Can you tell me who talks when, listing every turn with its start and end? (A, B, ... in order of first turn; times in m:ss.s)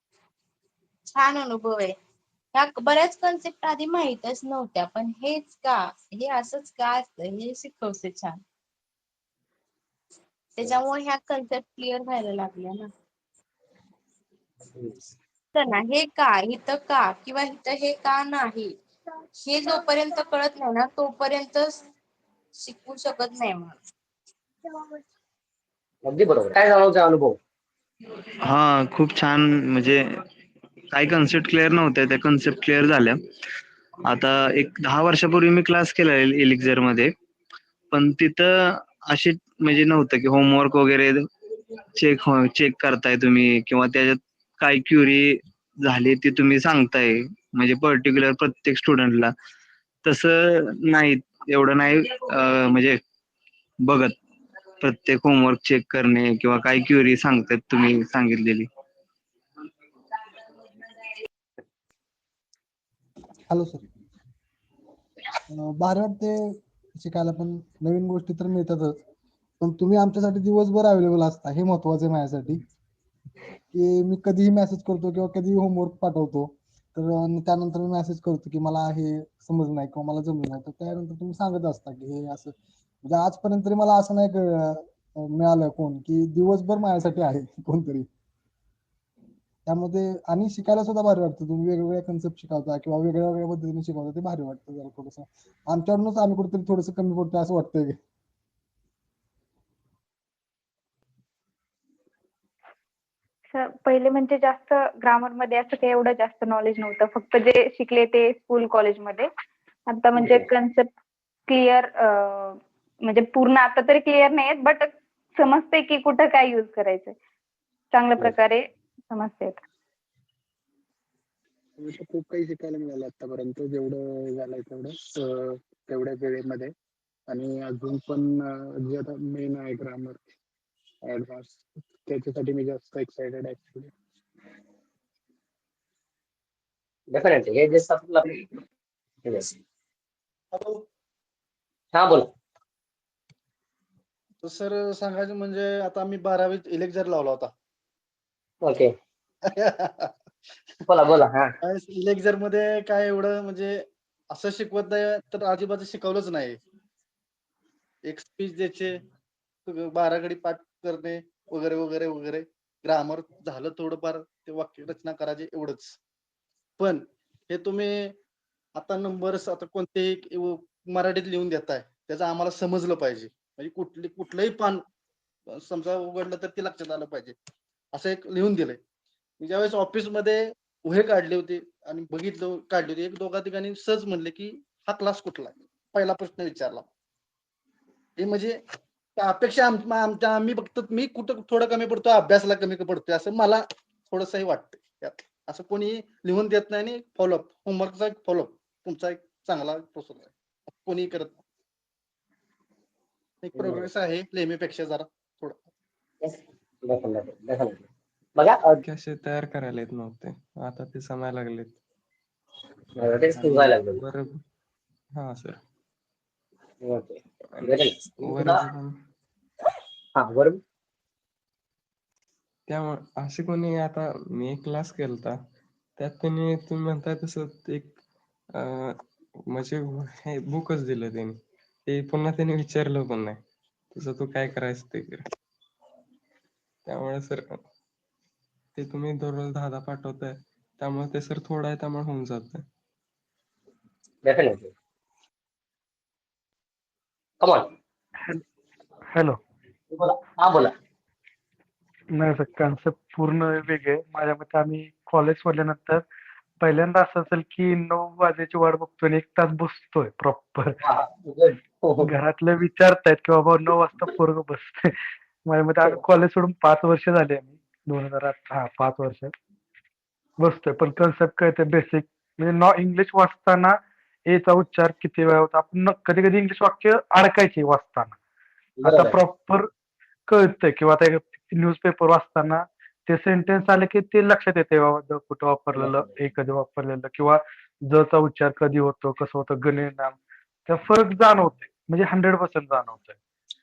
0:01.1-0:01.9 A
0:02.5-0:08.4 A
0:10.6-0:12.9 A
0:15.5-0:18.7 A
0:19.4-0:21.8 A
0:22.6-0:23.8 A
0:26.0-0:27.4 B
0:28.4-0:30.0 C
0:30.9-0:33.2 C
0:34.0-0:37.1 C
0:37.9-0:41.2 C
0:42.0-0:49.3 C
0:50.0-0:53.0 C
0:53.8-0:54.2 C
0:54.8-0:58.7 C
1:03.5-1:03.8 D
1:05.5-1:09.0 D
1:09.6-1:12.6 D
1:13.7-1:28.1 D
1:29.6-1:38.0 D
1:43.5-1:49.3 E
1:49.9-1:50.9 E
1:50.2-1:50.5 B
1:51.5-1:57.2 E
1:57.9-1:59.6 E
2:01.8-2:06.7 F
2:07.3-2:10.2 F
2:11.0-2:13.9 F
2:17.1-2:18.4 B
2:19.2-2:19.6 B
2:20.5-2:20.8 G
2:21.9-2:22.3 B
2:24.4-2:27.5 G
2:28.6-2:28.9 B
2:29.5-2:30.1 G
2:30.9-2:31.5 B
2:31.6-2:36.6 G
2:38.0-2:38.9 G
2:39.6-2:46.0 G
2:46.8-2:48.2 G
2:48.7-2:54.8 G
2:55.5-2:57.4 G
2:57.9-2:58.8 G
2:59.4-3:06.8 G
3:08.2-3:08.6 G
3:09.2-3:21.4 G
3:23.4-3:25.6 G
3:23.6-3:23.8 B
3:26.2-3:27.8 B
3:28.4-3:28.8 B
3:28.8-3:31.8 H
3:33.0-3:34.0 B
3:33.3-3:34.4 H
3:35.1-3:35.6 H
3:36.8-3:38.6 B
3:37.5-3:39.0 H
3:40.1-3:40.6 B
3:42.7-3:45.4 H
3:46.0-3:48.0 H
3:48.6-3:48.9 H
3:49.5-3:55.2 H
3:56.8-3:57.6 H
3:58.7-4:02.6 H
4:04.2-4:04.7 B
4:07.4-4:07.7 B
4:09.1-4:09.4 I
4:09.9-4:10.7 B
4:12.1-4:16.0 I
4:16.6-4:20.8 I
4:20.8-4:22.1 B
4:22.0-4:29.3 I
4:30.4-4:38.2 I
4:38.8-4:39.2 B
4:38.8-4:39.7 I
4:40.3-4:53.2 I
4:45.7-4:46.1 B